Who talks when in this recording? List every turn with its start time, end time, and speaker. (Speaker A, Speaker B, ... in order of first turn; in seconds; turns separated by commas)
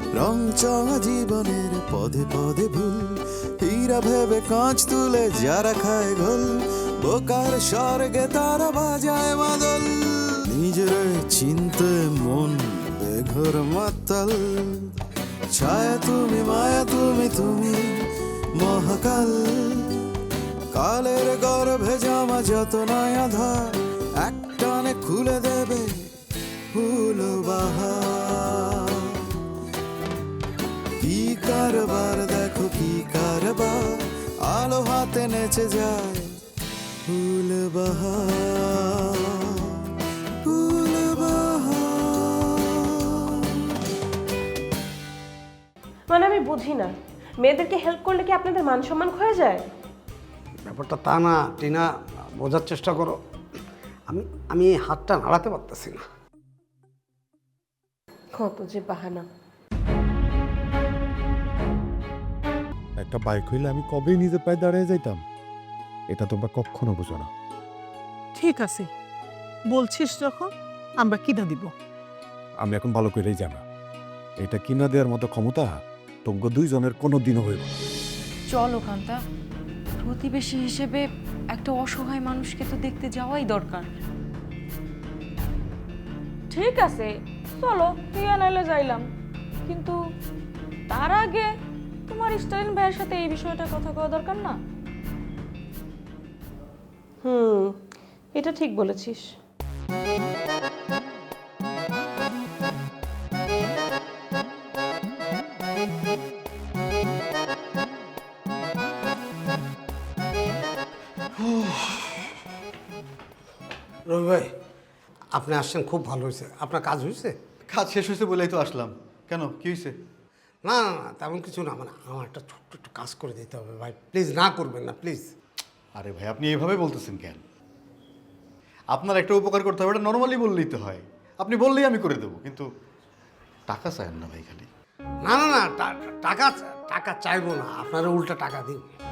Speaker A: 0.1-14.9, Speaker A: 15.5-18.0, Speaker A: 18.6-20.1, Speaker A: 20.7-26.1, Speaker A: 26.7-29.1, Speaker A: 31.0-36.3, Speaker A: 37.1-39.8, Speaker A: 40.4-43.4, Speaker B: 46.1-49.6, Speaker C: 50.6-53.2, Speaker C: 54.1-56.0, Speaker B: 58.4-59.3, Speaker D: 63.0-65.2, Speaker D: 66.1-67.3, Speaker E: 68.4-68.9, Speaker E: 69.7-70.5, Speaker E: 71.0-71.7, Speaker D: 72.6-73.6, Speaker D: 74.4-77.8, Speaker F: 78.5-79.2, Speaker F: 80.0-81.0, Speaker F: 81.5-83.8, Speaker G: 86.5-87.1, Speaker G: 87.6-89.0, Speaker G: 89.7-90.0, Speaker G: 90.9-91.5, Speaker G: 92.1-94.6, Speaker B: 97.2-97.7, Speaker B: 98.4-99.2, Speaker H: 111.4-112.3, Speaker C: 114.1-114.5, Speaker C: 115.3-117.4, Speaker H: 117.7-119.9, Speaker C: 120.7-125.3, Speaker H: 126.0-127.4, Speaker H: 128.9-132.7, Speaker H: 133.7-134.7, Speaker C: 135.3-138.9